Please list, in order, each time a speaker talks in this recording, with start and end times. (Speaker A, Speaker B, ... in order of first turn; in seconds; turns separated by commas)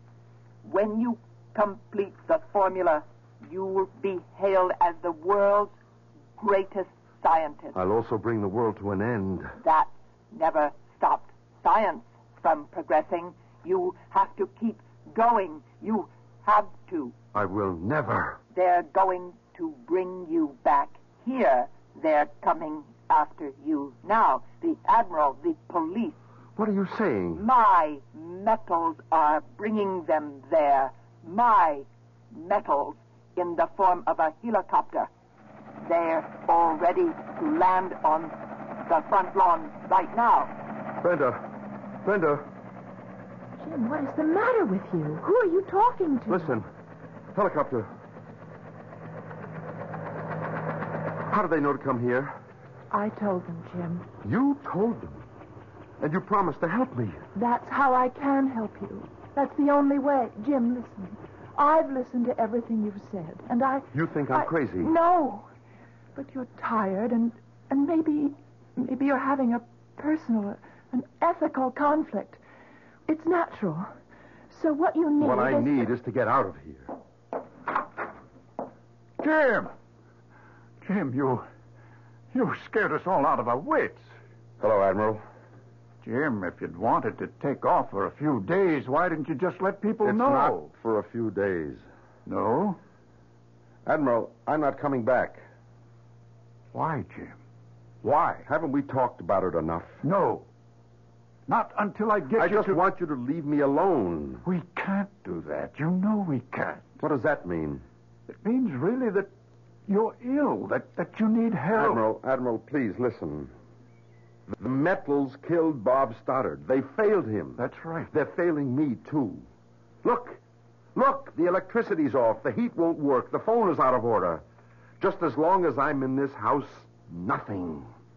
Speaker A: 0.6-5.7, Speaker A: 6.4-7.8, Speaker B: 7.7-9.5, Speaker A: 9.6-17.1, Speaker B: 17.3-18.4, Speaker A: 18.5-26.2, Speaker B: 26.6-27.4, Speaker A: 27.3-35.1, Speaker A: 35.8-38.3, Speaker A: 38.9-40.5, Speaker B: 41.0-41.4, Speaker B: 42.0-42.5, Speaker C: 43.6-46.6, Speaker B: 46.3-46.7, Speaker B: 47.3-47.9, Speaker B: 51.3-52.4, Speaker C: 52.9-54.1, Speaker B: 54.2-55.2, Speaker B: 56.0-57.2, Speaker C: 57.3-65.5, Speaker B: 63.9-64.9, Speaker C: 66.1-72.4, Speaker C: 73.1-73.9, Speaker C: 74.5-75.8, Speaker B: 75.2-76.9, Speaker D: 79.2-79.7, Speaker D: 80.8-81.5, Speaker D: 82.3-84.0, Speaker B: 84.6-85.2, Speaker D: 86.0-90.7, Speaker B: 90.0-91.8, Speaker D: 92.2-92.8, Speaker B: 93.8-95.4, Speaker D: 96.7-97.3, Speaker B: 98.0-100.0, Speaker D: 100.0-100.5, Speaker D: 101.5-102.8, Speaker B: 102.3-104.4, Speaker D: 104.4-107.0, Speaker B: 107.0-107.8, Speaker D: 108.3-109.3, Speaker D: 109.9-112.0, Speaker B: 111.7-113.5, Speaker B: 114.6-119.5, Speaker D: 117.6-118.1, Speaker B: 120.0-120.4, Speaker B: 120.9-124.4, Speaker B: 125.0-127.9